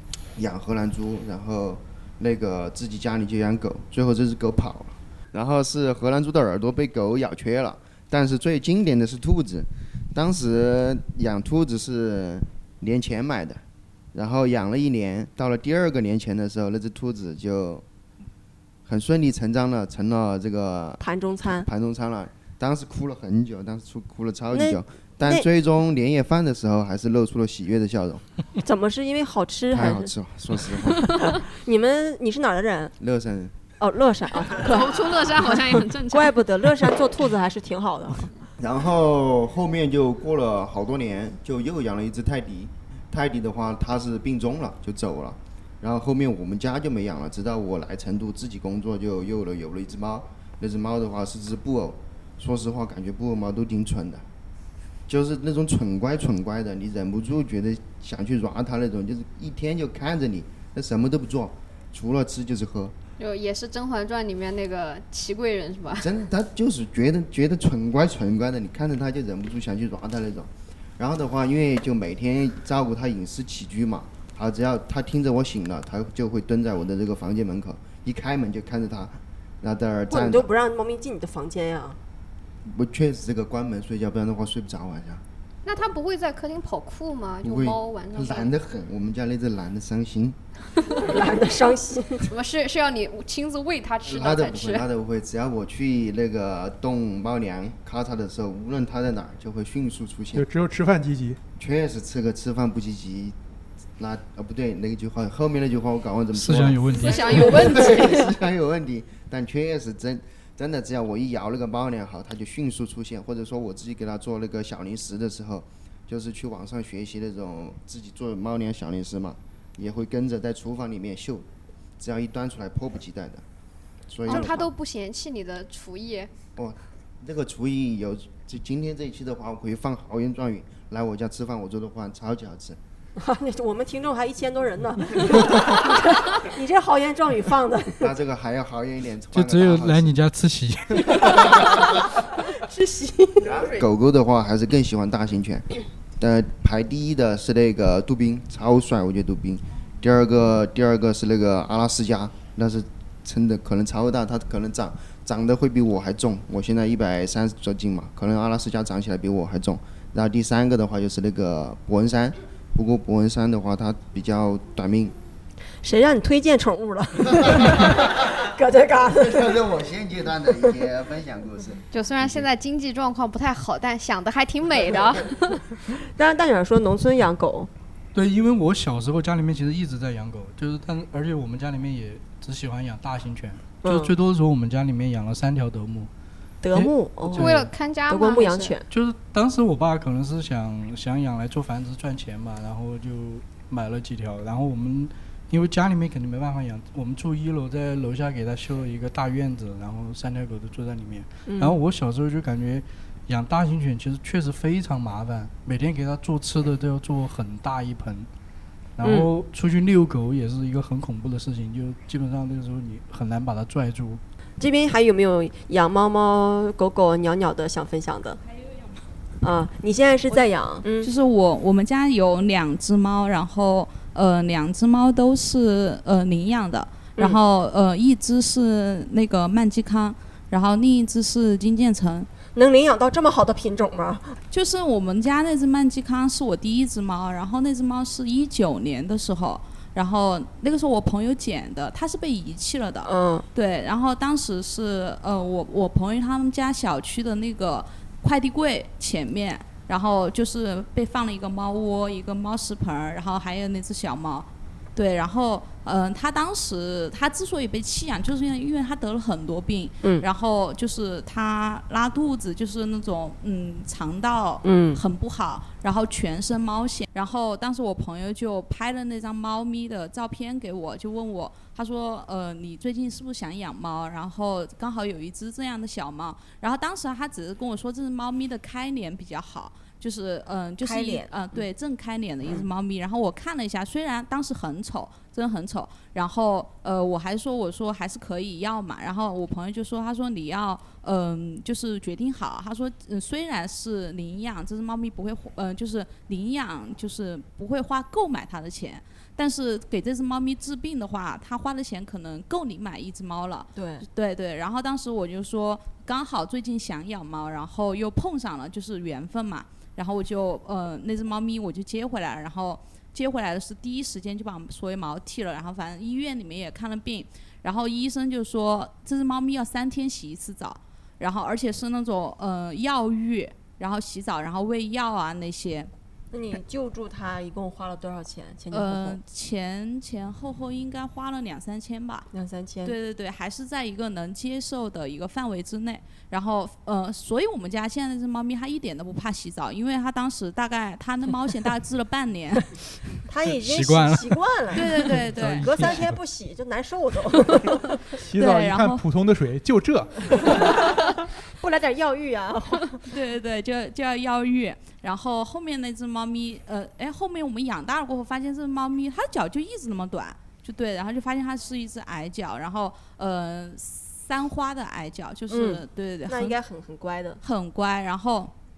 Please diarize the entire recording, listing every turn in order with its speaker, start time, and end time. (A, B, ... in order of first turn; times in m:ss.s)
0:00.4-0:17.8 A
0:18.8-0:28.3 A
0:21.0-0:21.7 B
0:24.5-0:25.5 B
0:28.6-0:30.1 B
0:29.7-0:31.3 A
0:31.2-0:32.9 B
0:33.0-0:33.6 A
0:33.8-0:38.3 B
0:34.5-0:36.4 C
0:38.6-0:54.2 A
0:55.1-1:02.9 A
1:03.2-1:06.1 C
1:06.0-1:20.5 A
1:20.1-1:22.0 B
1:22.6-1:25.2 A
1:25.6-1:28.5 C
1:27.4-1:30.4 A
1:31.0-1:32.3 B
1:32.3-1:34.8 C
1:34.0-1:40.4 A
1:40.3-1:41.4 D
1:41.6-1:43.4 A
1:44.0-2:01.5 A
1:46.3-1:47.7 E
1:46.9-1:48.3 C
2:02.0-2:03.4 A
2:04.1-2:04.7 A
2:04.2-2:06.3 C
2:06.6-2:12.8 A
2:13.2-2:18.1 B
2:18.0-2:20.2 A
2:19.3-2:21.3 E
2:21.1-2:23.7 B
2:23.4-2:45.2 A
2:45.8-2:49.6 B
2:47.4-2:48.2 A
2:49.2-2:52.5 A
2:51.9-2:55.7 C
2:56.2-2:57.7 B
2:58.1-3:06.1 E
3:03.8-3:04.1 B
3:06.6-3:07.5 B
3:06.7-3:07.7 E
3:07.3-3:08.8 C
3:08.1-3:08.8 B
3:08.9-3:28.3 E
3:21.5-3:21.8 B
3:29.0-3:34.2 E
3:29.0-3:29.3 B
3:34.6-3:38.4 B
3:39.4-3:41.1 B
3:40.4-3:52.3 F
3:52.6-3:54.4 B
3:54.5-5:25.9 F
4:03.0-4:03.4 B
4:24.6-4:25.0 B
4:40.8-4:41.6 B
5:03.7-5:04.1 B
5:26.3-5:29.2 B
5:28.7-5:32.3 F
5:32.3-5:32.9 B
5:32.8-5:42.7 F
5:43.2-5:48.0 B
5:43.6-5:46.2 E
5:44.7-5:45.7 F
5:48.2-5:50.6 D
5:48.4-5:49.0 F
5:50.4-5:50.7 B
5:51.6-5:53.0 B
5:53.0-6:06.6 F
6:05.5-6:07.4 B
6:07.4-6:08.5 F